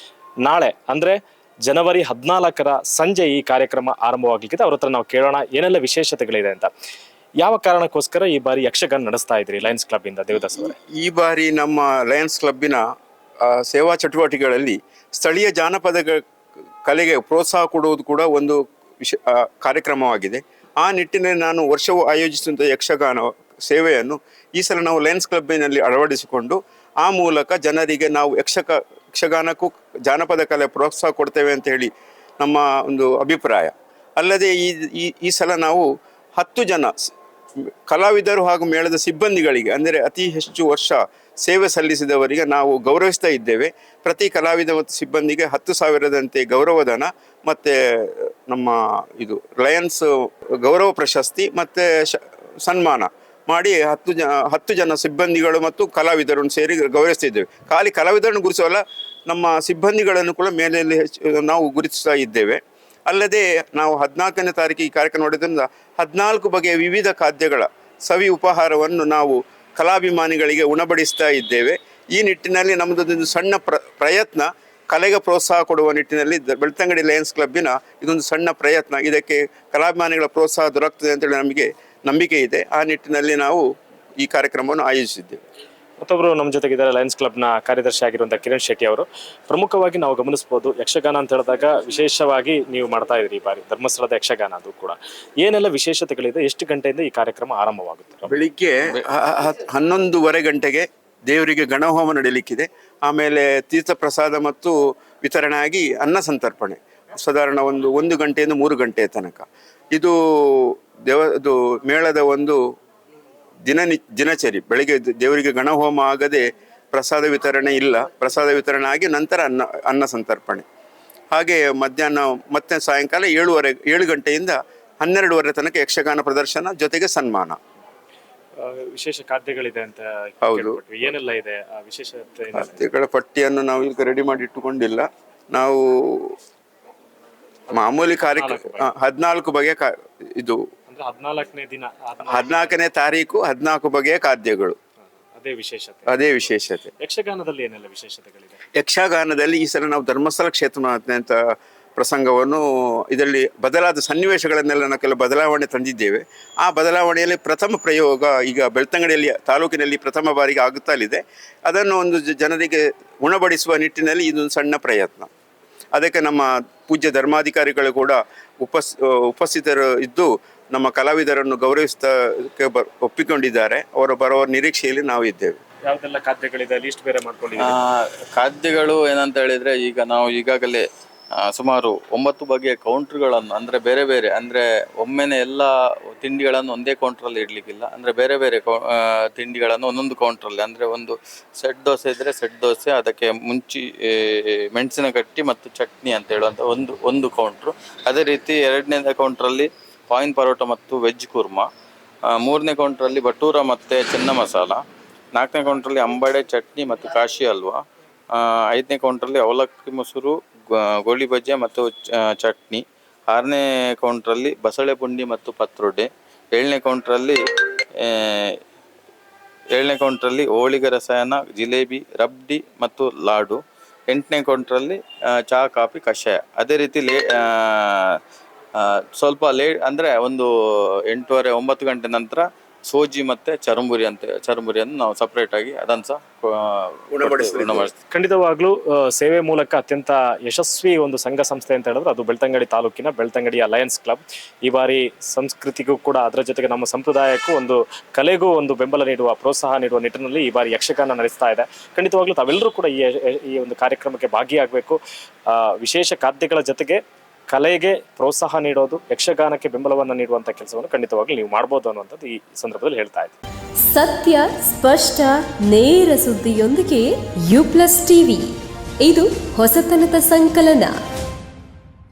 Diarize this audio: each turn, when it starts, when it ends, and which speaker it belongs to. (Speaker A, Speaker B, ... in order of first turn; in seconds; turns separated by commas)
Speaker A: 0.4-6.7, Speaker A: 7.4-10.8, Speaker B: 10.4-12.8, Speaker B: 13.4-16.2, Speaker B: 16.9-37.1, Speaker B: 37.9-50.1, Speaker B: 50.6-83.6, Speaker B: 84.2-85.4, Speaker A: 86.0-98.3, Speaker B: 98.3-112.6, Speaker B: 113.7-120.7, Speaker B: 121.3-127.6, Speaker A: 128.6-132.8, Speaker B: 130.4-130.8, Speaker B: 132.5-136.3, Speaker B: 137.7-140.6, Speaker A: 138.3-138.9, Speaker A: 140.9-142.7, Speaker B: 142.3-144.8, Speaker A: 145.3-146.2, Speaker B: 146.1-146.9, Speaker A: 147.0-148.6, Speaker B: 148.8-151.4, Speaker B: 152.0-165.3, Speaker B: 165.9-175.6, Speaker A: 175.9-177.8, Speaker C: 177.6-180.8, Speaker C: 181.5-201.7, Speaker C: 202.3-204.8, Speaker C: 205.4-207.8, Speaker C: 208.3-217.4, Speaker C: 218.0-218.5, Speaker C: 219.7-223.6, Speaker C: 224.1-228.2, Speaker C: 228.8-230.5, Speaker C: 231.1-238.0, Speaker B: 237.1-237.9, Speaker A: 238.1-263.4, Speaker D: 263.8-268.5, Speaker D: 269.0-270.9